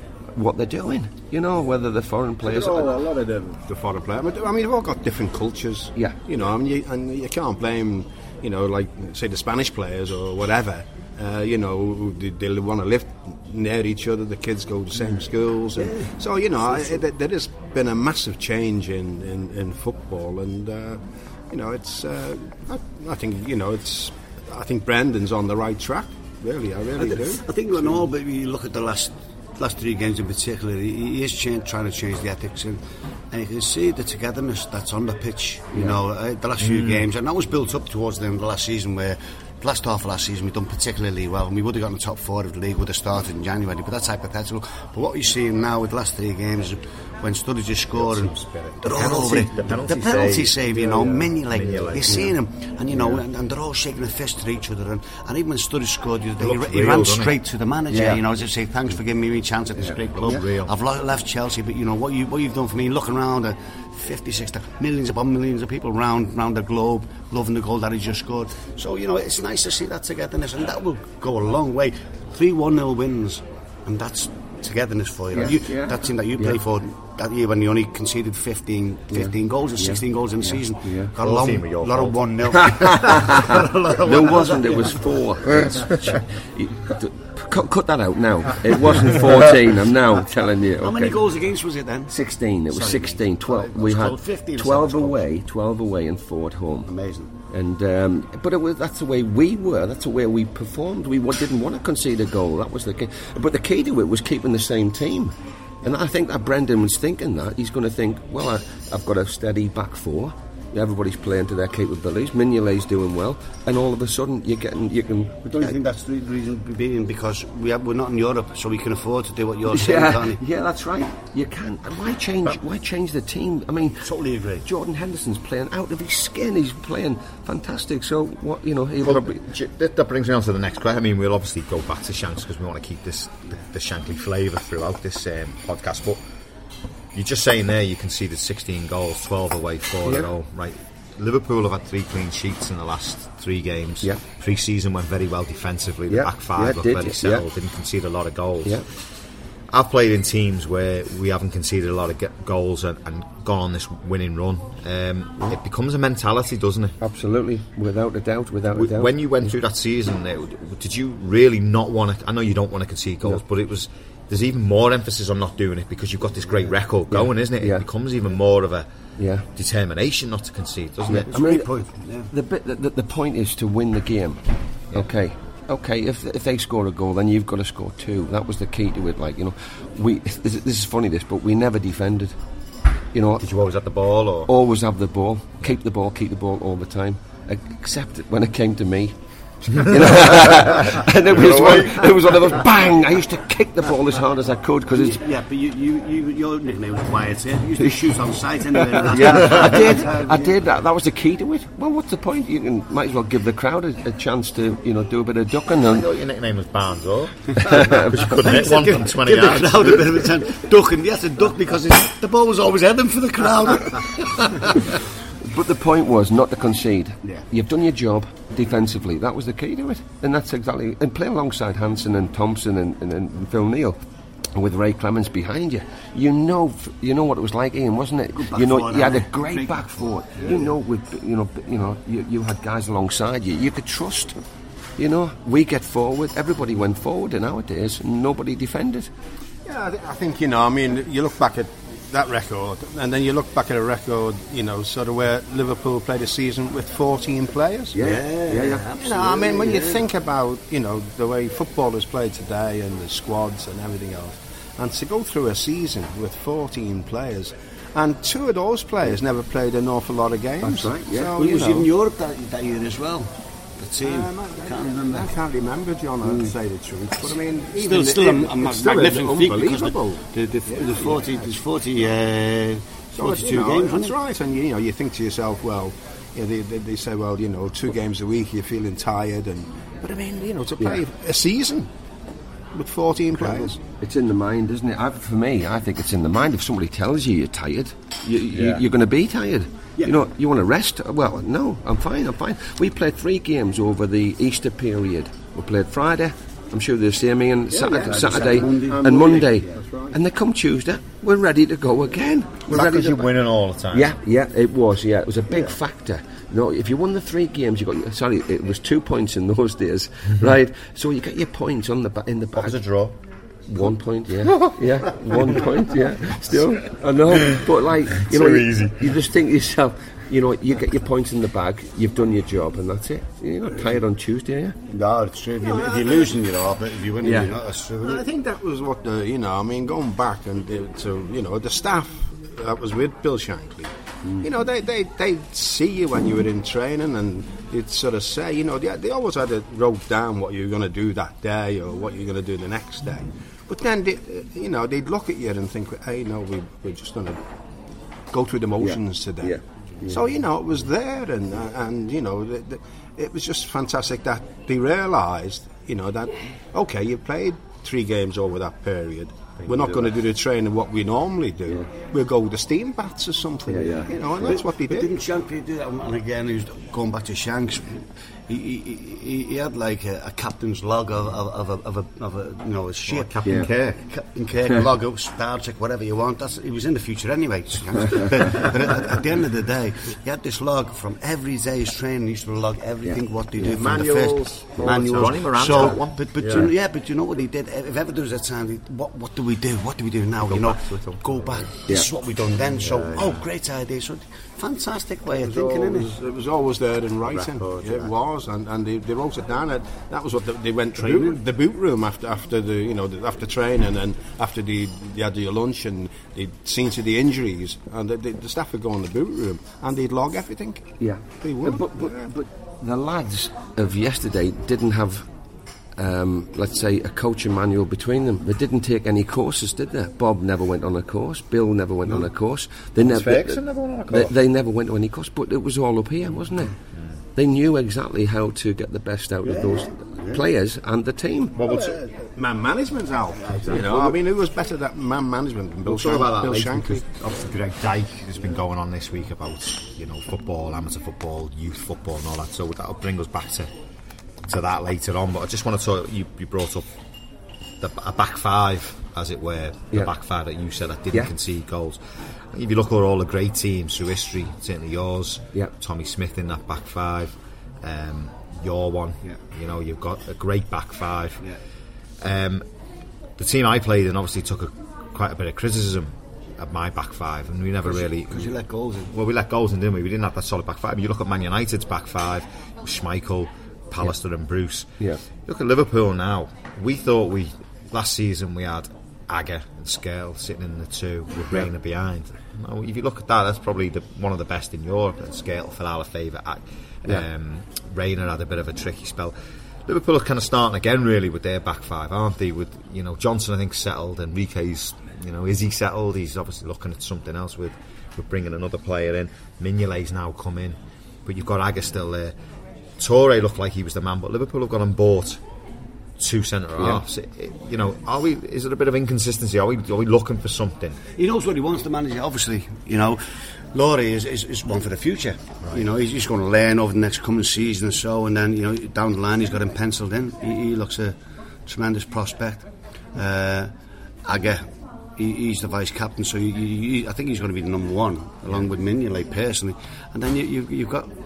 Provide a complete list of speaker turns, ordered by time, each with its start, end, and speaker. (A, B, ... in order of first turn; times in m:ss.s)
0:00.3-0:03.0 A
0:02.4-0:27.4 B
0:15.8-0:16.1 C
0:16.7-0:17.0 C
0:27.0-1:26.2 C
0:36.6-0:37.0 D
0:47.9-0:52.3 D
0:56.4-0:57.4 D
0:57.9-0:58.2 A
1:00.1-1:00.7 D
1:15.3-1:16.6 A
1:19.1-1:21.1 A
1:21.2-1:22.2 D
1:22.6-1:31.2 A
1:30.8-1:32.1 C
1:32.1-1:36.9 A
1:32.7-1:35.3 C
1:36.9-1:37.3 C
1:37.5-1:55.8 A
1:55.4-2:00.4 C
1:59.7-2:04.1 A
2:04.0-2:04.6 C
2:04.6-2:09.4 A
2:09.0-2:16.2 D
2:17.1-2:28.8 D
2:26.1-2:27.4 A
2:29.7-2:37.0 D
2:37.0-2:39.4 A
2:38.7-2:48.9 D
2:47.1-2:47.8 A
2:49.2-2:49.4 A
2:49.5-2:51.3 D
2:51.1-2:52.3 C
2:51.3-2:51.7 A
2:52.3-2:54.4 A
2:54.9-3:02.3 A
3:03.1-3:03.4 A
3:03.4-3:04.5 D
3:04.5-3:15.2 A
3:10.5-3:12.1 D
3:14.9-3:20.6 C
3:19.0-3:26.0 A
3:19.2-3:19.6 D
3:25.9-3:30.2 D
3:27.6-3:28.3 A
3:28.2-3:35.0 C
3:35.4-3:44.0 A
3:44.5-3:54.4 A
3:48.4-3:50.5 C
3:50.4-3:50.7 B
3:55.0-3:59.1 A
3:59.6-4:08.1 B
4:07.9-4:08.9 A
4:08.0-4:10.0 C
4:08.9-4:21.6 B
4:20.6-4:21.9 A
4:21.4-4:25.3 C
4:24.0-4:31.5 B
4:26.2-4:26.5 C
4:27.2-4:34.1 C
4:33.1-4:41.9 B
4:42.7-4:43.8 B
4:43.4-4:43.7 D
4:44.0-5:03.2 A
4:48.5-4:48.8 D
4:57.7-5:00.2 B
4:57.9-4:59.7 C
5:02.7-5:04.1 D
5:03.9-5:12.8 A
5:12.6-5:13.2 D
5:13.7-5:24.8 A
5:14.4-5:15.6 D
5:18.2-5:19.2 D
5:24.9-5:28.2 C
5:25.6-5:26.4 B
5:27.2-5:27.5 A
5:28.0-5:33.9 B
5:34.4-5:47.4 B
5:48.3-5:49.6 B
5:48.8-5:50.2 A
5:50.1-6:05.1 B
5:59.6-6:00.1 D
6:03.7-6:04.1 A
6:04.4-6:36.1 C
6:13.0-6:14.0 D
6:13.4-6:13.7 A
6:23.6-6:25.3 B
6:24.8-6:26.7 D
6:30.4-6:31.7 D
6:32.6-6:33.4 D
6:35.3-6:50.9 B
6:37.2-6:38.1 D
6:51.0-6:55.3 A
6:51.4-6:52.3 B
6:56.0-7:06.7 A
7:03.0-7:04.3 D
7:07.4-7:11.6 A
7:09.4-7:10.4 C
7:11.5-7:12.0 D
7:11.6-7:17.0 B
7:13.4-7:14.2 D
7:15.8-7:23.7 D
7:24.4-7:26.9 D
7:27.8-7:32.0 D
7:32.5-7:41.4 D
7:42.2-7:42.6 D
7:43.4-7:48.5 D
7:47.9-7:49.1 C
7:49.1-7:54.9 D
7:55.4-8:09.3 D
8:09.9-8:22.3 D
8:23.0-8:25.4 D
8:26.2-8:31.0 D
8:31.2-8:33.2 C
8:33.7-8:43.7 C
8:44.2-8:44.6 C
8:45.2-8:51.1 C